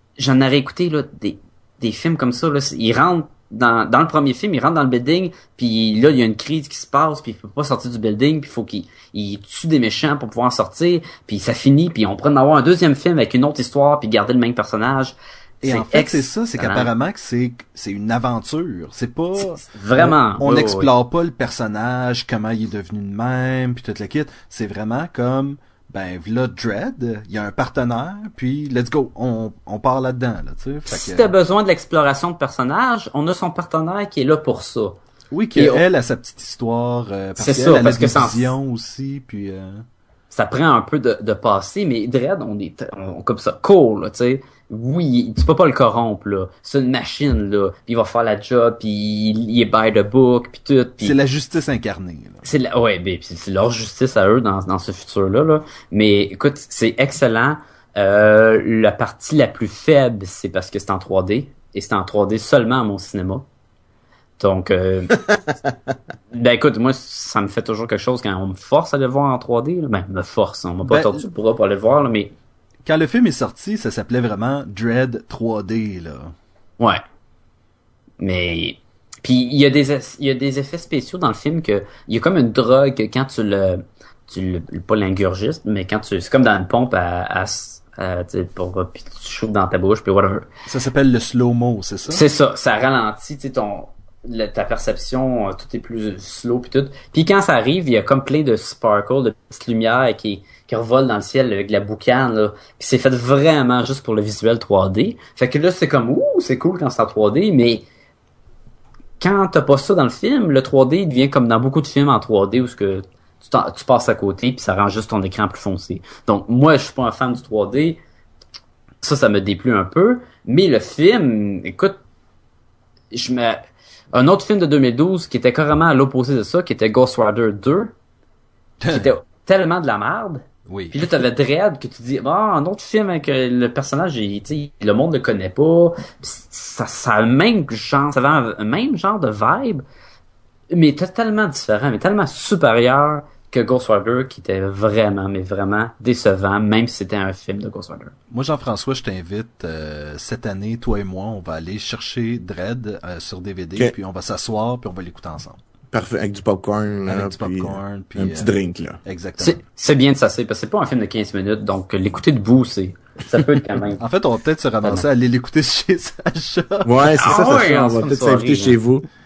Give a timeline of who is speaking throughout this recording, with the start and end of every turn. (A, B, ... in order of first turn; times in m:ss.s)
0:00.2-0:16.9 A
0:15.6-0:31.3 B
0:19.4-0:20.9 A
0:30.9-0:35.0 A
0:35.3-0:39.8 B
0:35.5-0:35.8 A
0:37.4-0:38.5 A
0:40.3-0:51.1 A
0:51.0-0:52.4 B
0:52.4-1:03.4 A
1:04.4-1:05.2 A
1:06.3-1:12.3 A
1:10.8-1:11.2 B
1:12.9-1:16.4 B
1:18.2-1:30.5 A
1:30.7-1:32.2 B
1:32.1-1:47.8 A
1:49.2-1:58.0 A
1:59.0-2:02.0 A
2:03.1-2:07.9 A
2:08.8-2:09.1 B
2:08.9-2:19.8 A
2:10.7-2:11.0 B
2:20.7-2:28.1 A
2:28.3-2:35.6 B
2:35.9-2:39.0 C
2:37.1-2:38.5 B
2:39.0-2:39.6 B
2:39.4-2:44.0 A
2:44.0-2:47.2 B
2:46.8-2:49.1 C
2:47.1-2:48.8 A